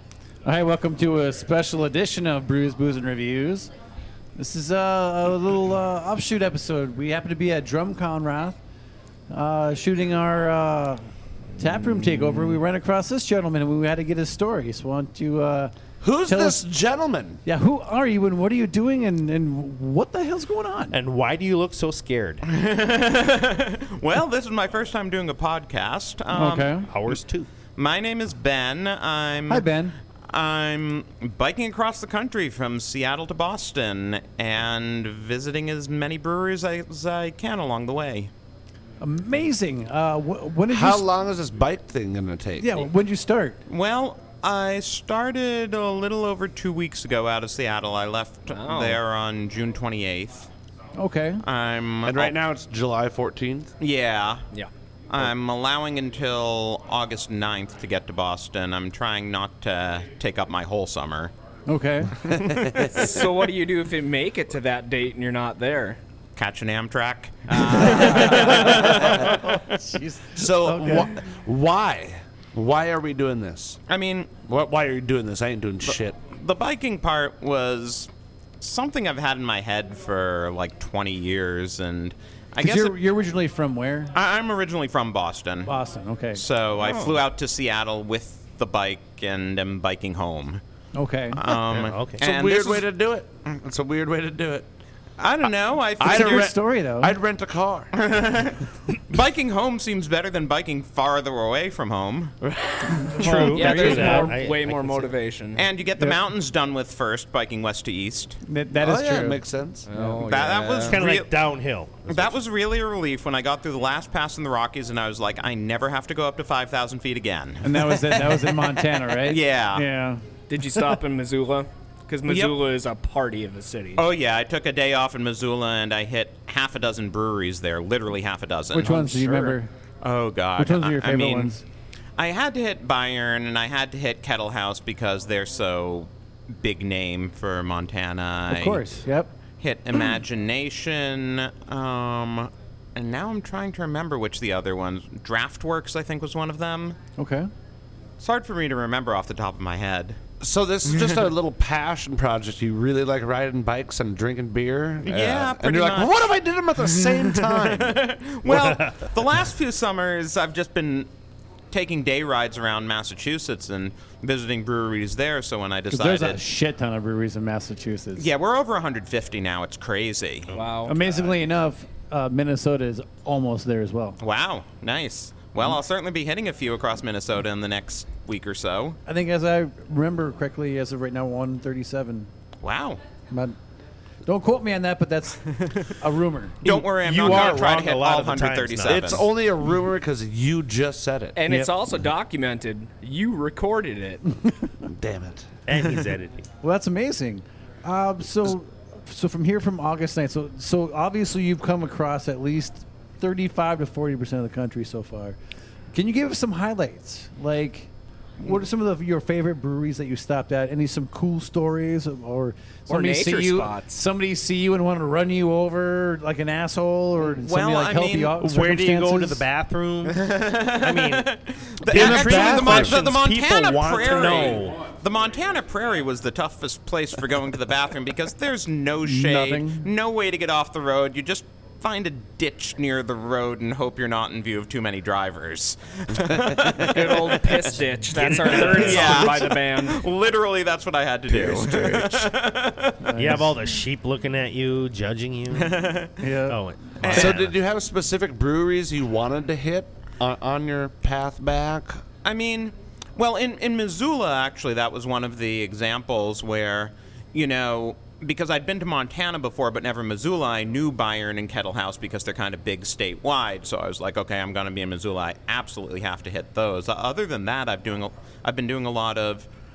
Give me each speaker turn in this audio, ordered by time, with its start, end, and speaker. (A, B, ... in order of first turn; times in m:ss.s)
0:00.5-0:03.7 A
0:04.4-0:08.6 A
0:09.3-0:11.0 A
0:11.6-0:15.7 A
0:12.2-0:12.5 B
0:16.0-0:17.4 C
0:16.3-0:16.6 A
0:17.5-0:21.0 A
0:20.9-0:22.4 D
0:22.4-0:27.2 E
0:26.3-0:26.9 A
0:26.9-0:27.5 D
0:27.8-0:29.7 E
0:29.5-0:30.0 A
0:30.3-0:38.3 E
0:39.0-0:41.0 A
0:40.7-0:42.9 C
0:42.6-0:43.6 A
0:43.7-0:50.5 E
0:48.5-0:49.0 B
0:51.0-0:51.4 A
0:51.4-0:52.3 E
0:52.0-0:53.7 C
0:53.8-0:54.5 E
0:55.1-1:01.3 E
1:01.7-1:02.2 A
1:02.3-1:03.1 C
1:02.4-1:02.8 E
1:02.9-1:06.0 B
1:06.4-1:09.8 E
1:07.5-1:08.6 B
1:07.8-1:11.1 A
1:10.3-1:13.8 C
1:13.9-1:14.4 E
1:14.4-1:16.2 C
1:15.9-1:23.0 E
1:22.6-1:24.1 A
1:24.2-1:25.7 E
1:25.7-1:26.4 A
1:26.4-1:30.6 E
1:31.0-1:31.4 A
1:31.3-1:32.9 E
1:31.7-1:32.2 D
1:31.8-1:34.7 C
1:35.2-1:36.5 E
1:36.0-1:37.9 C
1:36.0-1:37.2 A
1:37.9-1:42.4 E
1:42.4-1:43.2 C
1:42.9-1:44.4 A
1:43.2-1:45.1 D
1:43.5-1:45.7 B
1:45.6-1:48.4 E
1:48.4-1:50.2 A
1:48.7-1:49.9 C
1:49.9-1:51.0 B
1:50.2-1:51.4 E
1:50.8-1:52.4 D
1:52.1-1:59.9 E
1:57.6-2:00.2 A
2:00.5-2:04.0 B
2:02.3-2:02.6 E
2:04.0-2:11.6 E
2:08.7-2:09.7 A
2:10.6-2:11.6 A
2:12.2-2:16.1 E
2:16.6-2:19.0 E
2:18.5-2:19.3 A
2:19.6-2:27.0 E
2:27.2-2:27.5 A
2:28.2-2:30.2 E
2:30.4-2:38.0 C
2:30.9-2:31.2 E
2:35.0-2:41.1 E
2:38.5-2:38.8 D
2:41.7-2:46.4 E
2:45.9-2:48.3 A
2:48.2-2:50.5 E
2:50.5-2:51.0 B
2:50.8-2:54.2 A
2:54.2-2:59.0 E
2:59.1-3:02.3 A
3:02.6-3:03.0 E
3:04.3-3:06.6 A
3:05.5-3:05.9 E
3:06.6-3:09.3 E
3:06.6-3:09.3 D
3:08.9-3:11.4 C
3:11.4-3:14.2 B
3:14.9-3:15.5 C
3:15.7-3:16.5 D
3:16.6-3:25.4 A
3:25.9-3:39.4 A
3:32.9-3:34.0 B
3:37.3-3:38.4 E
3:38.4-3:41.3 D
3:40.0-3:57.6 E
3:41.8-3:43.0 C
3:41.9-3:44.8 D
3:49.0-3:49.9 A
3:56.3-3:56.8 C
3:56.8-4:00.1 B
3:58.1-3:59.5 D
3:58.3-4:03.1 E
4:01.3-4:02.3 C
4:03.0-4:03.5 A
4:03.2-4:05.8 D
4:05.6-4:06.2 E
4:06.2-4:06.6 A
4:06.5-4:07.6 D
4:07.0-4:07.5 E
4:07.0-4:12.0 C
4:12.2-4:29.5 E